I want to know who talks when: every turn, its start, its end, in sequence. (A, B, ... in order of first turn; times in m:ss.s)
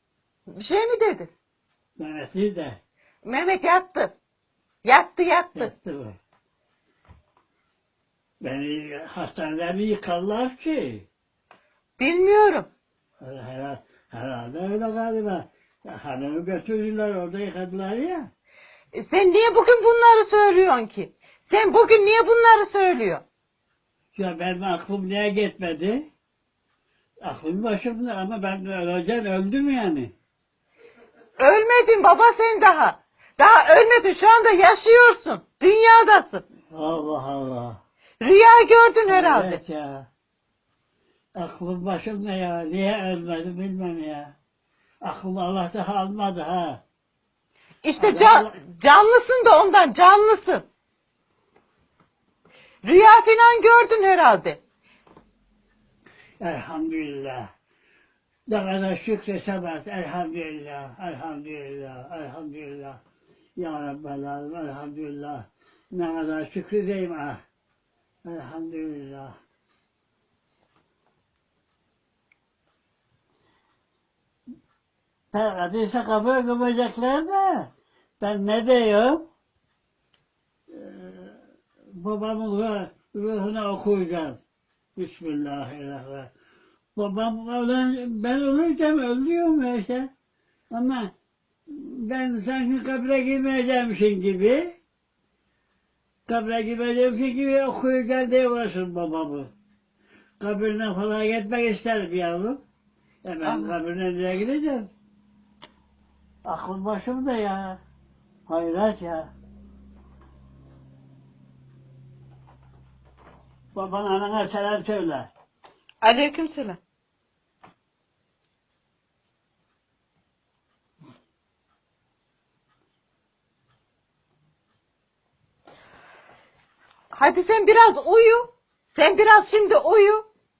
0:00.5-0:01.3 A
0:02.0-0:02.8 B
0:03.2-0:04.1 A
0:04.8-0:05.7 A
0:05.6-0:06.2 B
0:08.4-0:11.1 B
0:12.0-0:12.7 A
0:13.2-0:18.3 B
0:19.0-0:23.2 A
0:24.1-0:26.1 B
0:27.2-0:30.1 B
0:31.4-0:36.4 A
0:36.7-0:37.8 B
0:38.2-0:39.6 A
0:39.1-0:40.1 B
0:41.4-0:44.4 B
0:45.0-0:46.8 B
0:47.8-0:50.6 A
0:48.0-0:48.6 B
0:52.8-0:54.6 A
0:56.4-0:57.5 B
0:58.5-1:03.0 B
1:03.6-1:07.4 B
1:08.3-1:09.3 B
1:15.3-1:19.2 B
1:20.7-1:21.4 B
1:21.9-1:24.4 B
1:25.0-1:26.3 B
1:27.0-1:30.1 B
1:30.7-1:31.1 B
1:31.7-1:34.7 B
1:36.3-1:39.5 B
1:40.4-1:42.6 B
1:43.2-1:44.9 B
1:43.4-1:43.8 A
1:46.5-1:47.8 B
1:48.5-1:49.3 B
1:53.8-1:55.3 B
1:56.0-1:56.8 A
2:07.1-2:10.2 A